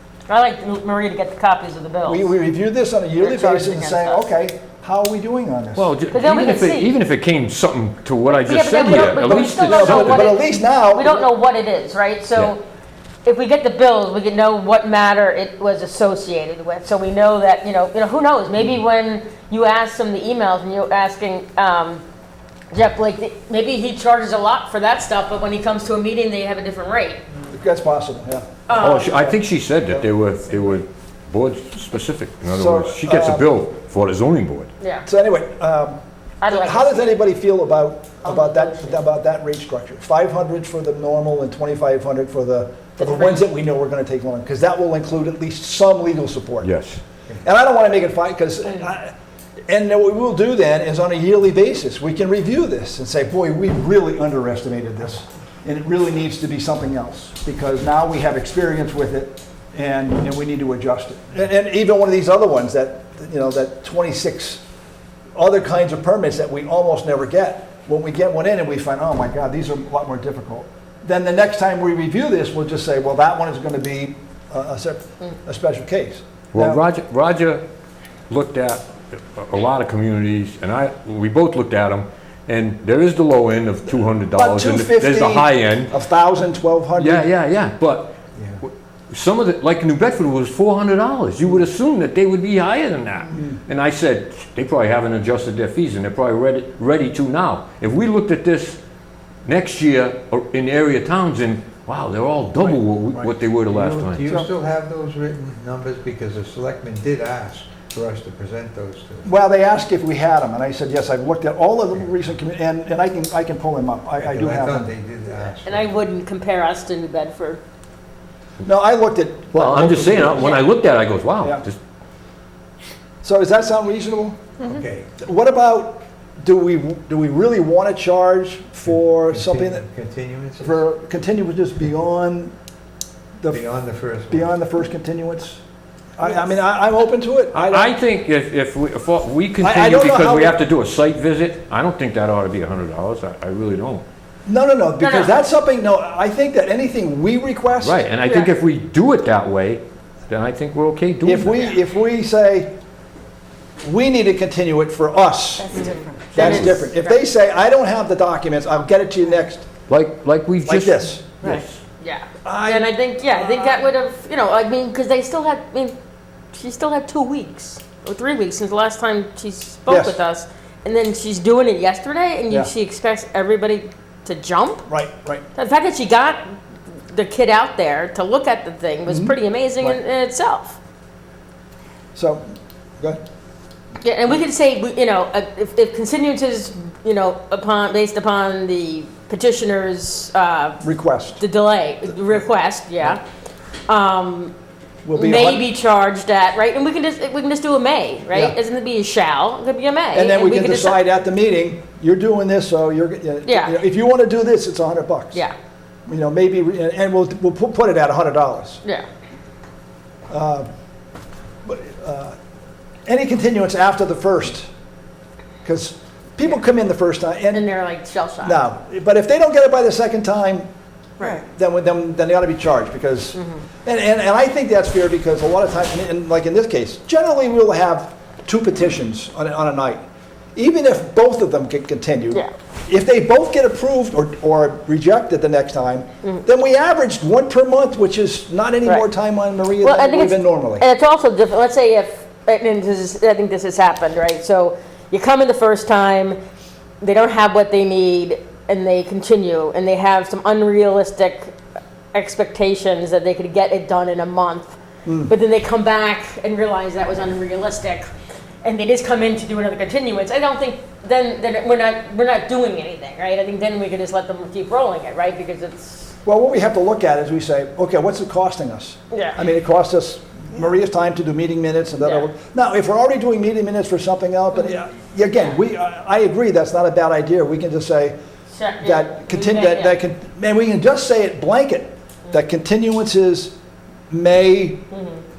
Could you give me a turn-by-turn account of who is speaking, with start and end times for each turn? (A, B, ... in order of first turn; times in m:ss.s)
0:00.3-0:02.3 A
0:02.1-0:05.9 B
0:03.2-0:04.2 A
0:05.8-0:10.3 C
0:06.1-0:07.0 A
0:08.3-0:12.6 A
0:08.8-0:11.3 B
0:13.2-0:22.0 A
0:22.7-0:27.2 A
0:27.5-0:30.1 B
0:28.7-0:29.3 A
0:28.8-0:34.7 C
0:32.5-0:33.5 B
0:34.8-0:35.1 A
0:35.1-0:46.7 B
0:36.4-0:37.1 A
0:38.2-0:39.0 A
0:43.0-0:43.5 A
0:46.6-0:47.0 C
0:47.4-0:49.1 B
0:49.7-1:04.6 B
1:05.4-1:16.8 B
1:16.5-1:17.6 C
1:18.3-1:25.9 C
1:24.4-1:27.3 B
1:27.0-1:38.8 C
1:33.3-1:33.6 B
1:39.5-1:44.3 C
1:43.7-1:49.3 D
1:49.2-1:54.9 B
1:54.2-1:56.0 D
1:55.6-1:57.6 A
1:58.6-2:00.7 B
1:59.5-2:01.8 C
2:03.2-2:04.5 B
2:04.6-2:05.1 D
2:05.2-2:09.9 B
2:08.9-2:10.8 D
2:10.6-2:12.5 B
2:13.4-2:13.7 B
2:13.5-2:14.6 D
2:14.3-2:15.6 B
2:16.2-2:18.0 B
2:17.5-2:24.0 C
2:19.6-2:20.6 B
2:24.5-2:28.0 B
2:25.0-2:25.4 A
2:27.8-2:31.7 C
2:28.3-2:28.5 A
2:31.2-2:32.7 B
2:33.8-2:39.7 B
2:35.7-2:37.2 A
2:36.4-2:36.8 C
2:39.9-2:41.8 C
2:40.7-2:41.4 B
2:42.0-2:46.0 A
2:42.4-2:43.8 B
2:46.5-2:54.9 A
2:49.9-2:50.2 B
2:54.9-2:55.4 B
2:55.6-2:56.4 A
2:57.1-3:00.8 A
2:59.1-3:00.0 B
3:02.2-3:02.4 B
3:04.0-3:10.8 A
3:10.8-3:11.4 B
3:11.4-3:13.2 A
3:13.9-3:14.5 A
3:15.0-3:15.7 B
3:15.1-3:21.0 A
3:20.1-3:25.4 B
3:23.5-3:23.8 A
3:26.1-3:28.8 B
3:30.3-3:30.7 B
3:31.6-3:32.4 B
3:33.1-3:34.7 B
3:35.6-3:37.7 B
3:37.5-3:38.7 A
3:38.4-3:40.7 B
3:41.2-3:50.0 B
3:43.4-3:43.6 A
3:50.6-4:00.9 B
3:59.8-4:06.4 A
4:07.0-4:11.6 A
4:12.1-4:14.8 A
4:15.0-4:15.3 B
4:15.3-4:18.1 A
4:18.6-4:26.2 A
4:26.2-4:38.2 B
4:29.1-4:29.4 A
4:32.0-4:32.3 A
4:38.5-4:40.0 A
4:38.8-4:43.5 B
4:44.1-4:44.8 B
4:44.9-4:45.2 A